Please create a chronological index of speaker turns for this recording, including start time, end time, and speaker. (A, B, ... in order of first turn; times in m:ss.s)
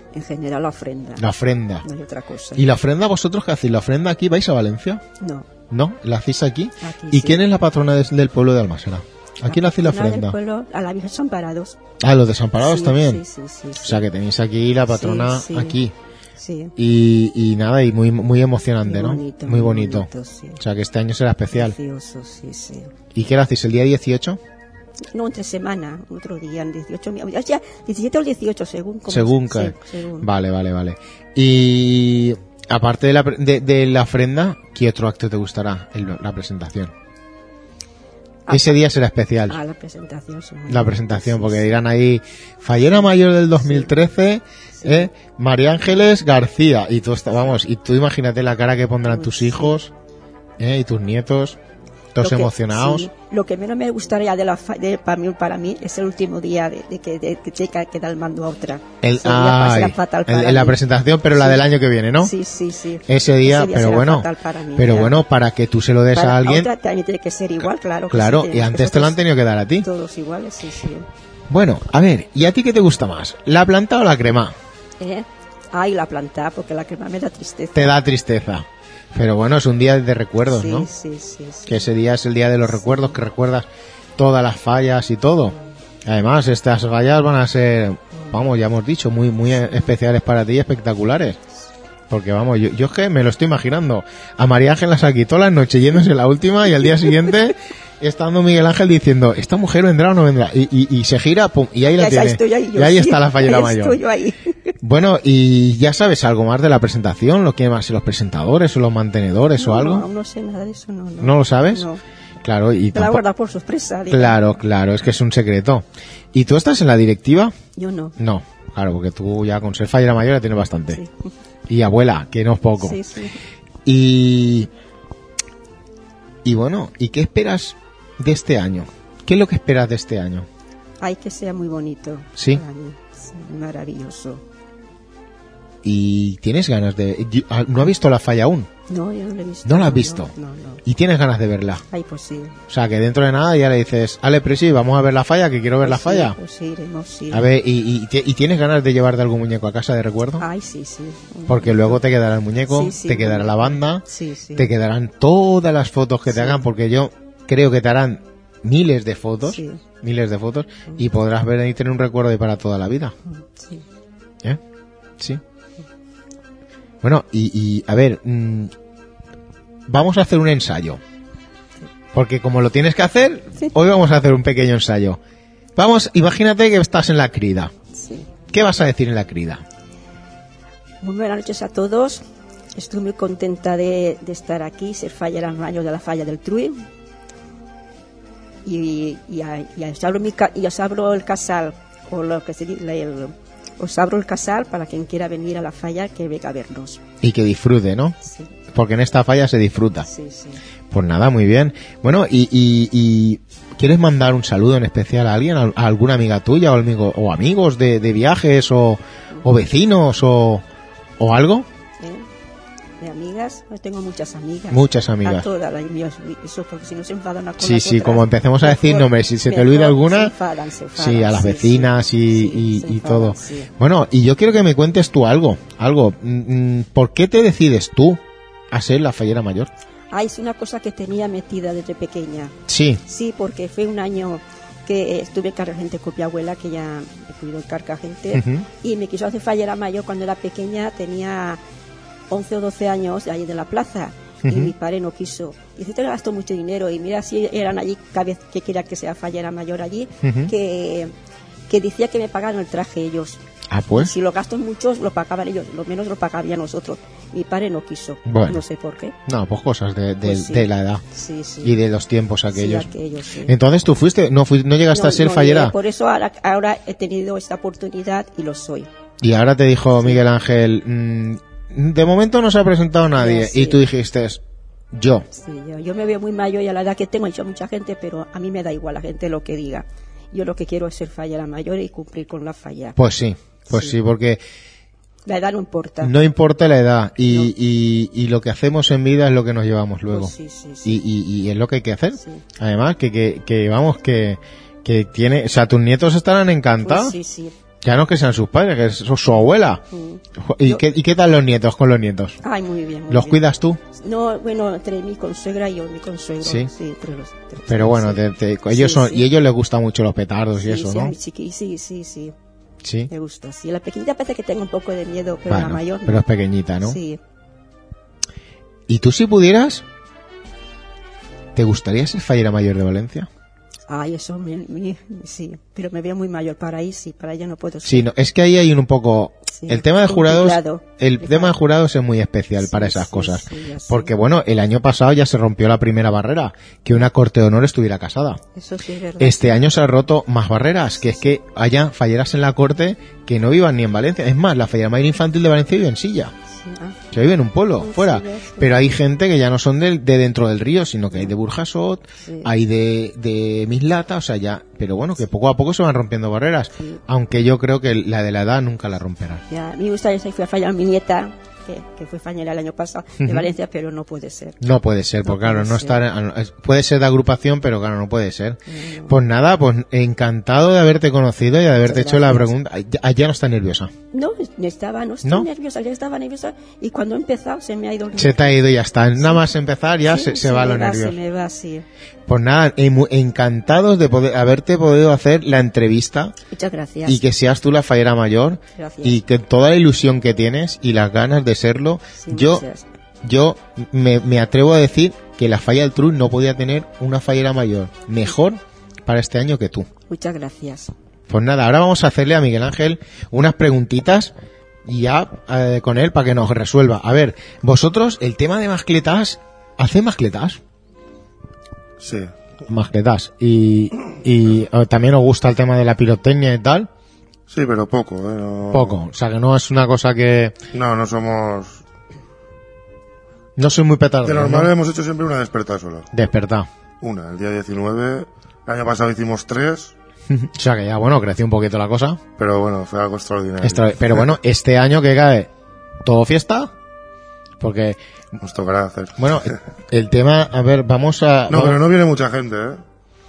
0:00.1-0:01.2 A
0:01.2-0:01.8 B
0:01.8-0:02.6 A
0:02.6-0:05.0 B
0:05.2-0:05.5 A
0:05.7-0:10.4 B
0:06.8-0:07.4 A
0:09.4-0:11.8 A
0:12.0-0:13.2 B
0:12.6-0:14.0 A
0:13.8-0:15.9 B
0:14.9-0:15.8 A
0:16.4-0:16.7 A
0:16.8-0:21.7 B
0:18.8-0:20.6 A
0:21.5-0:22.9 A
0:23.1-0:24.4 B
0:25.1-0:30.3 A
0:29.1-0:36.9 B
0:38.4-0:38.8 A
0:38.5-0:39.6 B
0:39.4-0:41.7 A
0:40.7-0:49.9 B
0:43.6-0:44.0 A
0:44.8-0:45.1 A
0:49.0-0:49.8 A
0:50.6-0:51.6 B
0:52.1-0:53.1 B
0:52.2-1:00.8 A
0:59.0-1:02.3 B
1:01.3-1:01.6 A
1:02.2-1:05.2 A
1:03.1-1:06.7 B
1:06.1-1:09.2 A
1:08.1-1:09.9 B
1:09.8-1:11.1 A
1:11.5-1:14.5 B
1:15.0-1:18.0 A
1:17.7-1:20.9 B
1:20.5-1:21.9 A
1:21.6-1:31.4 B
1:22.8-1:23.1 A
1:28.2-1:28.4 A
1:29.6-1:29.9 A
1:32.1-1:44.0 B
1:36.8-1:37.3 A
1:41.9-1:44.7 A
1:44.8-1:50.1 B
1:49.6-1:52.0 A
1:51.2-1:51.9 B
1:52.4-1:53.2 B
1:52.9-1:54.4 A
1:54.1-1:57.5 B
1:57.8-1:58.1 A
1:58.2-2:01.0 B
2:01.7-2:03.0 B
2:02.8-2:03.3 A
2:03.8-2:04.7 B
2:06.4-2:10.5 B
2:11.0-2:14.4 A
2:12.4-2:12.6 B
2:15.8-2:18.7 B
2:18.9-2:20.8 A
2:19.6-2:20.3 B
2:20.8-2:21.8 B
2:21.9-2:22.6 A
2:22.7-2:26.4 B
2:25.8-2:27.4 A
2:27.3-2:30.4 B
2:30.4-2:32.0 A
2:31.5-2:43.1 B
2:32.6-2:34.7 A
2:36.3-2:36.6 A
2:39.4-2:39.8 A
2:43.3-2:43.8 A
2:47.0-2:48.7 B
2:49.9-2:51.0 B
2:52.1-2:55.2 B
2:55.8-2:57.7 B
2:58.0-2:58.3 A
2:58.5-2:59.6 B
3:01.0-3:02.2 A
3:02.8-3:06.8 A
3:08.6-3:17.0 A
3:17.2-3:18.2 B
3:18.7-3:20.1 B
3:20.0-3:20.6 A
3:20.9-3:30.6 B
3:31.2-3:31.7 B
3:32.0-3:32.3 A
3:33.0-3:43.7 A
3:34.7-3:35.5 B
3:37.6-3:40.3 B
3:41.0-3:49.7 B
3:50.1-3:52.5 A
3:52.7-3:53.0 B
3:53.0-4:01.6 A
3:58.3-3:58.6 B
4:02.3-4:11.1 A
4:04.4-4:04.7 B
4:10.2-4:10.5 B
4:11.7-4:13.4 A
4:13.7-4:14.1 B
4:13.9-4:19.2 A
4:18.2-4:18.6 B
4:19.2-4:21.0 B
4:20.2-4:21.8 A
4:21.6-4:22.9 B
4:22.5-4:23.6 A
4:23.4-4:25.7 B
4:24.9-4:28.9 A
4:29.2-4:34.4 B
4:33.2-4:33.8 A
4:34.9-4:35.2 B
4:35.4-4:43.0 A
4:43.0-4:44.4 B
4:43.7-4:44.0 A
4:45.2-4:46.1 A
4:46.0-4:57.2 B
4:47.2-4:47.5 A
4:50.1-4:51.0 A
4:52.2-4:52.4 A
4:56.8-4:57.5 A
4:57.8-4:59.8 B
4:59.9-5:00.8 A
5:00.4-5:02.4 B
5:02.4-5:03.4 A
5:03.1-5:03.8 B
5:03.9-5:09.3 A
5:06.4-5:06.7 B
5:07.7-5:11.1 B
5:10.6-5:12.3 A
5:12.8-5:13.1 B
5:13.1-5:16.2 A
5:15.5-5:17.0 B
5:16.8-5:17.2 A
5:18.9-5:19.8 B
5:21.5-5:23.3 B
5:23.9-5:28.1 A
5:27.8-5:38.4 B
5:29.5-5:31.6 A
5:32.6-5:34.1 A
5:38.6-5:39.6 A
5:39.2-5:46.3 B
5:41.0-5:41.3 A
5:46.5-5:47.0 A
5:47.1-5:59.4 B
5:47.8-5:48.8 A
5:52.2-5:52.5 A
5:59.5-6:04.6 A
6:03.2-6:03.5 B
6:04.6-6:13.9 B
6:05.2-6:06.0 A
6:08.7-6:09.2 A
6:11.8-6:12.5 A
6:14.1-6:18.6 A
6:15.2-6:15.5 B
6:18.2-6:21.2 B
6:19.2-6:19.4 A
6:20.1-6:21.8 A
6:22.3-6:26.3 B
6:26.5-6:27.2 A
6:27.0-6:32.6 B
6:28.8-6:29.2 A
6:32.2-6:32.8 A
6:33.2-6:39.9 B
6:40.1-6:40.9 A
6:41.3-6:44.3 B
6:44.8-6:50.6 B
6:52.0-6:52.3 C
6:52.7-6:56.9 B
6:57.5-6:59.0 C
6:58.7-7:00.5 B
7:00.7-7:01.8 C
7:03.6-7:04.7 B
7:04.2-7:06.1 C
7:06.1-7:06.7 B
7:07.0-7:09.9 C
7:10.3-7:12.2 B
7:12.4-7:14.3 C
7:13.6-7:15.5 B
7:16.0-7:16.7 B
7:17.6-7:18.0 B
7:18.4-7:19.6 C
7:19.2-7:21.8 B
7:21.5-7:22.8 C